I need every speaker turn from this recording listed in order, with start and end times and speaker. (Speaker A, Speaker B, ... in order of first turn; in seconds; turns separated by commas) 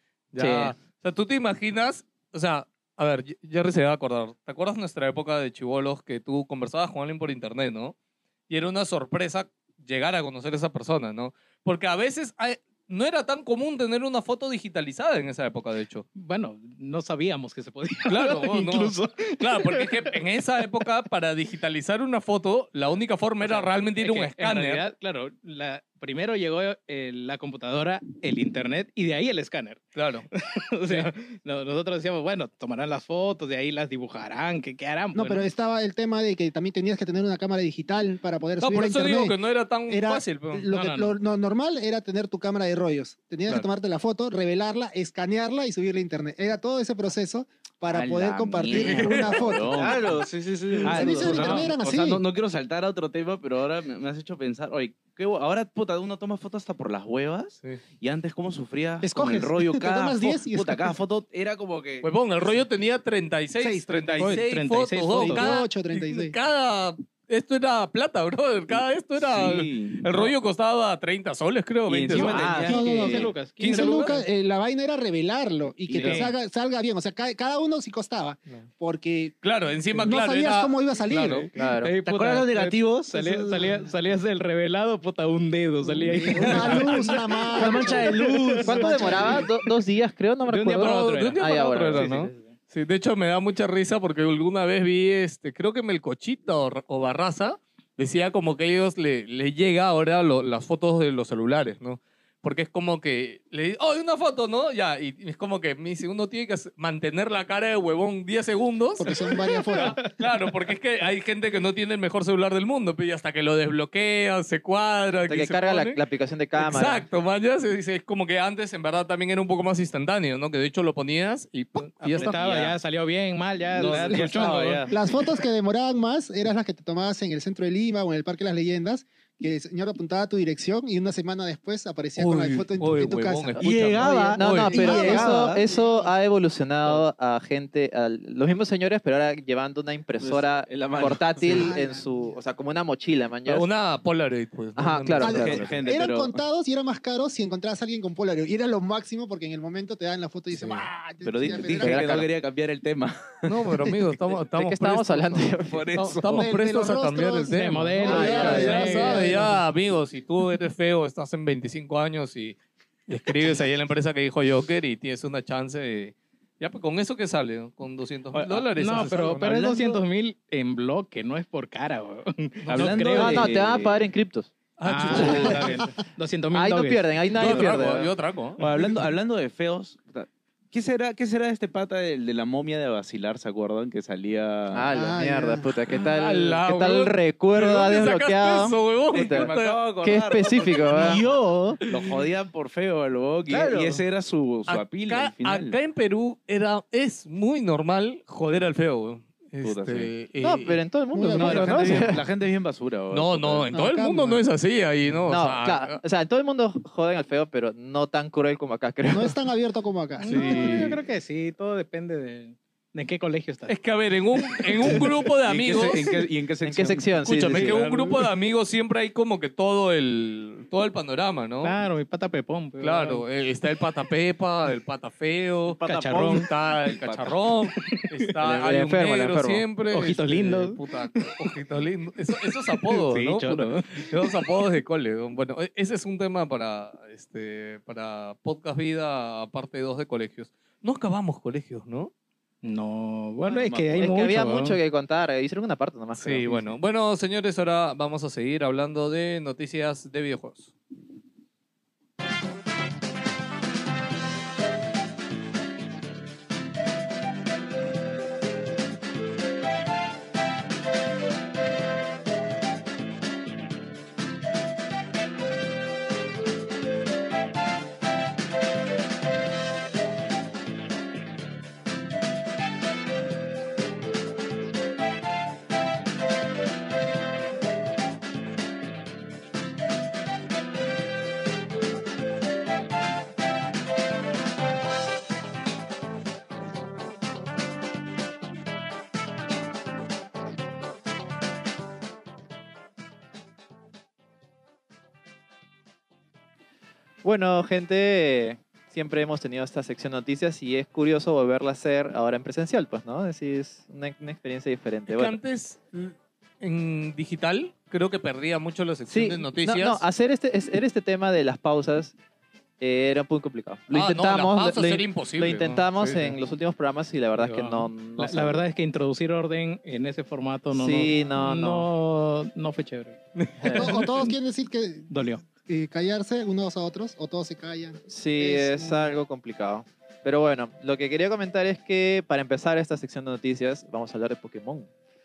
Speaker A: 0.3-7.9, Speaker B: 0.4-0.7, Speaker A: 8.5-16.0, Speaker C: 16.1-20.1, Speaker A: 18.1-24.9, Speaker C: 23.4-35.5, Speaker A: 29.9-30.3, Speaker D: 35.1-39.4, Speaker A: 38.6-40.7, Speaker D: 39.9-49.9, Speaker C: 40.7-41.1, Speaker E: 47.9-50.2, Speaker A: 48.7-49.5, Speaker F: 49.7-51.6, Speaker E: 50.8-62.1, Speaker D: 50.8-52.2, Speaker D: 59.0-61.0, Speaker A: 62.0-72.6, Speaker D: 63.6-64.4, Speaker C: 64.2-65.5, Speaker D: 65.1-66.3, Speaker E: 69.2-70.3, Speaker E: 71.9-73.3, Speaker C: 72.1-74.2, Speaker F: 72.2-72.8, Speaker D: 72.6-79.4, Speaker A: 73.6-74.2, Speaker E: 75.9-76.3, Speaker C: 76.0-76.3, Speaker A: 79.4-81.5, Speaker D: 79.9-81.6, Speaker B: 81.5-81.9, Speaker C: 81.8-88.8, Speaker F: 82.0-83.4, Speaker D: 85.8-89.5, Speaker F: 86.4-86.8, Speaker A: 86.4-86.9, Speaker F: 87.5-89.3, Speaker B: 88.6-92.2, Speaker C: 90.5-92.5, Speaker A: 90.8-116.0, Speaker D: 109.0-110.0, Speaker C: 109.7-110.1, Speaker B: 115.3-117.0, Speaker A: 116.6-122.6, Speaker C: 121.8-124.9, Speaker E: 122.3-122.7, Speaker E: 123.7-124.9, Speaker A: 123.8-124.8, Speaker D: 124.9-133.7, Speaker A: 132.2-135.2, Speaker F: 133.6-135.6, Speaker B: 134.3-143.7, Speaker D: 134.7-136.1, Speaker F: 140.2-141.6, Speaker D: 141.4-142.0, Speaker A: 143.5-145.8, Speaker B: 144.8-145.7, Speaker E: 145.2-146.4, Speaker D: 145.2-152.2, Speaker A: 150.5-150.8, Speaker E: 151.2-153.9, Speaker B: 151.8-152.3, Speaker A: 153.4-162.6, Speaker B: 154.6-156.2, Speaker E: 155.7-156.5, Speaker D: 156.3-159.6, Speaker C: 157.5-159.4, Speaker B: 158.1-158.7, Speaker A: 163.1-169.6, Speaker E: 168.3-169.6, Speaker C: 168.7-173.4, Speaker F: 169.4-169.9, Speaker A: 172.6-173.4, Speaker E: 172.7-174.0, Speaker B: 173.2-174.5, Speaker A: 174.8-175.8, Speaker C: 174.8-177.5, Speaker B: 175.1-175.5, Speaker B: 176.5-178.1, Speaker A: 177.3-178.6, Speaker E: 178.6-184.9, Speaker B: 184.7-189.5, Speaker D: 184.9-185.7, Speaker A: 185.9-189.8, Speaker E: 189.1-195.7, Speaker B: 190.0-191.2, Speaker F: 190.9-191.8, Speaker F: 193.5-194.0, Speaker A: 194.7-200.8, Speaker E: 199.6-200.1, Speaker B: 200.4-202.2, Speaker D: 201.1-202.2, Speaker E: 201.3-203.7, Speaker A: 203.1-206.0, Speaker D: 203.7-204.4, Speaker B: 205.3-209.3, Speaker D: 209.1-210.8, Speaker C: 210.2-213.7, Speaker A: 210.3-211.0, Speaker A: 213.7-216.1, Speaker C: 214.4-215.1, Speaker E: 215.4-217.9, Speaker B: 216.6-217.8, Speaker A: 217.2-221.8, Speaker C: 217.6-218.2, Speaker C: 221.6-223.2, Speaker A: 222.8-242.1, Speaker E: 225.7-227.4, Speaker C: 225.8-226.5, Speaker C: 227.8-228.2, Speaker B: 228.4-229.6, Speaker C: 229.9-231.5, Speaker C: 232.3-234.4, Speaker C: 242.6-244.8, Speaker E: 243.5-244.1, Speaker B: 243.9-246.5, Speaker A: 246.2-250.7, Speaker B: 297.2-305.4, Speaker A: 305.1-310.0, Speaker B: 309.1-312.1, Speaker B: 312.8-318.6, Speaker A: 313.9-316.4, Speaker C: 317.4-323.2, Speaker B: 320.7-321.9, Speaker A: 323.4-324.1, Speaker C: 323.7-324.0, Speaker D: 323.7-325.1, Speaker C: 325.1-325.4, Speaker D: 325.6-329.1, Speaker B: 328.1-334.9